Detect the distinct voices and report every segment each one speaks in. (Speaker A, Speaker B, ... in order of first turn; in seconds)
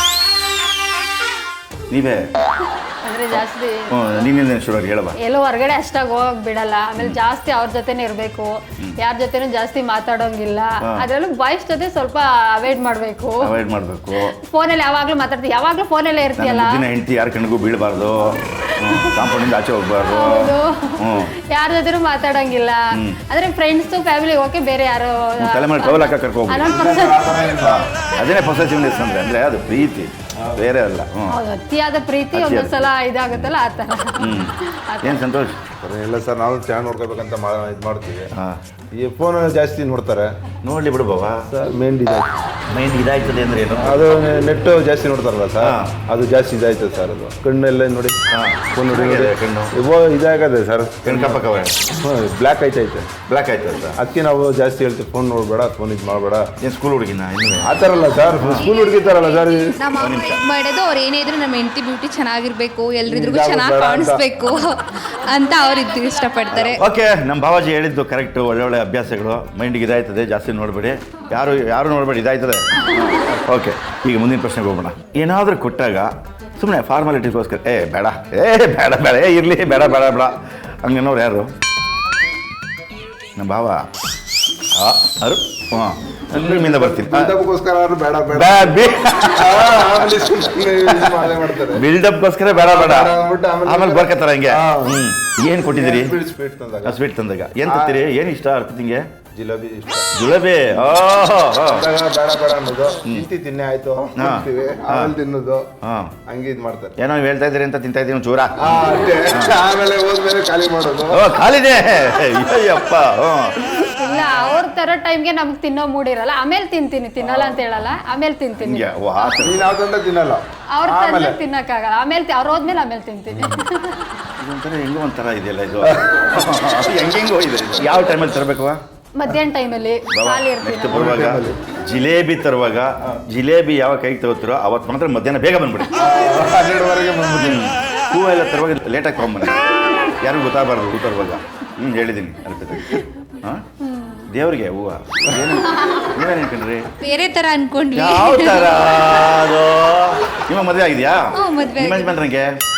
Speaker A: 1.9-2.3, 3.3-5.2, 10.8-11.1, 13.4-14.3, 16.4-21.3, 22.9-23.2, 25.4-26.8, 27.6-31.4, 32.3-33.5, 34.2-35.6, 38.3-38.6, 40.6-41.5, 42.7-44.0, 45.6-45.9, 48.3-49.7, 51.0-51.8, 53.3-54.0, 56.6-57.8, 58.4-58.7, 60.0-60.4, 66.5-81.5, 83.3-83.9, 84.7-87.3, 88.3-90.1, 90.9-93.1, 93.6-96.2, 96.8-99.1, 100.1-101.8, 104.2-105.1, 105.8-106.1, 107.0-109.6, 111.1-113.9, 118.6-119.7, 124.4-128.8, 130.1-136.1, 137.4-143.7, 144.3-146.9, 147.9-152.6
Speaker B: 3.0-4.3, 5.2-13.5, 14.3-16.8, 18.6-19.5, 20.1-27.4, 31.3-35.2, 113.8-119.3, 120.8-124.1, 129.2-131.0, 143.8-144.2, 145.6-146.2
Speaker C: 26.6-27.9, 35.8-38.3, 38.9-40.3, 41.5-42.3, 43.8-48.2, 48.7-51.4, 52.0-53.1, 54.0-56.5, 57.6-59.6, 63.0-64.3, 86.3-91.8, 92.5-97.0, 97.6-98.0, 99.3-100.1, 101.6-105.7, 106.3-107.0, 108.6-111.4, 117.2-117.6, 119.4-121.4, 125.8-126.2, 130.9-131.6, 135.9-137.6
Speaker D: 59.8-66.8, 147.0-149.0, 151.3-152.2